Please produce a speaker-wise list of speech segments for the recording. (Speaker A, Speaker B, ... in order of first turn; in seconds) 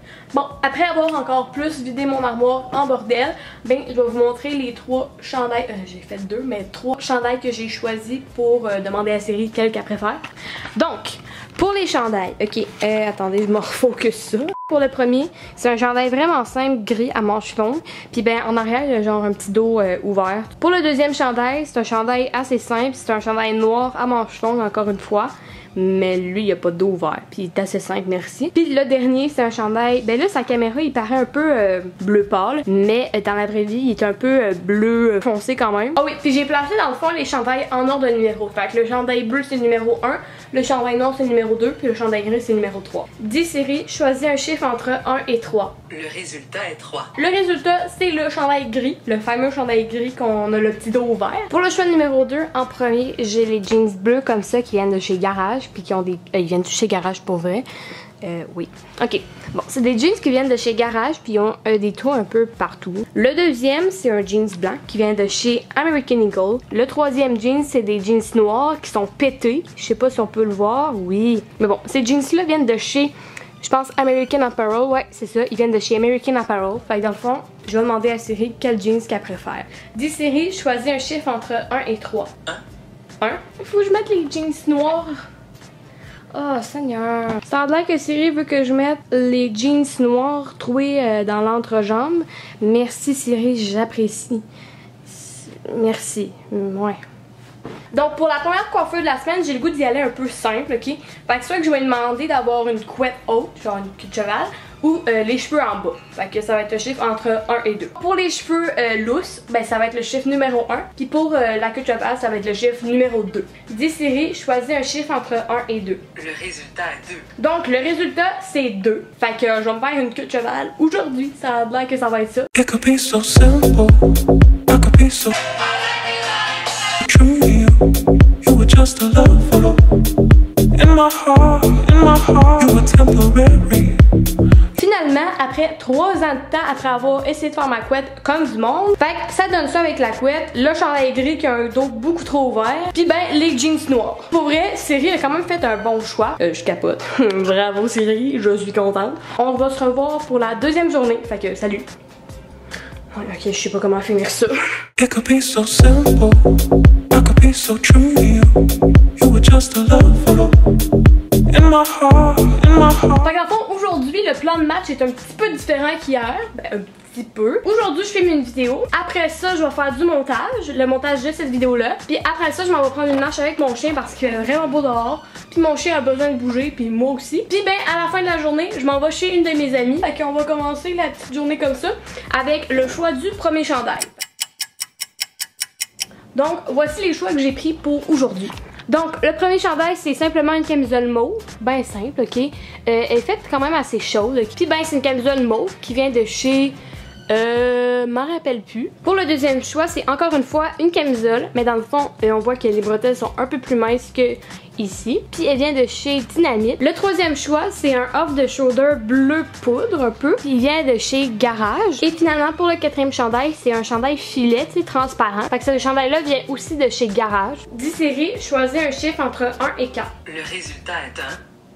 Speaker A: 0.3-10.2, 10.8-45.8, 47.1-57.7, 58.2-82.3, 83.2-85.2, 86.3-94.4, 95.0-97.0, 97.9-116.1, 117.4-122.5, 134.7-151.9, 153.1-154.6, 163.2-184.2, 186.3-196.8, 197.3-220.1
Speaker B: 45.9-47.1, 116.1-117.3, 220.2-221.4
Speaker C: 122.5-124.0, 124.7-125.5, 126.9-127.9, 128.4-129.8, 130.7-134.0, 155.0-156.5, 157.1-158.6, 159.2-160.6, 161.5-163.2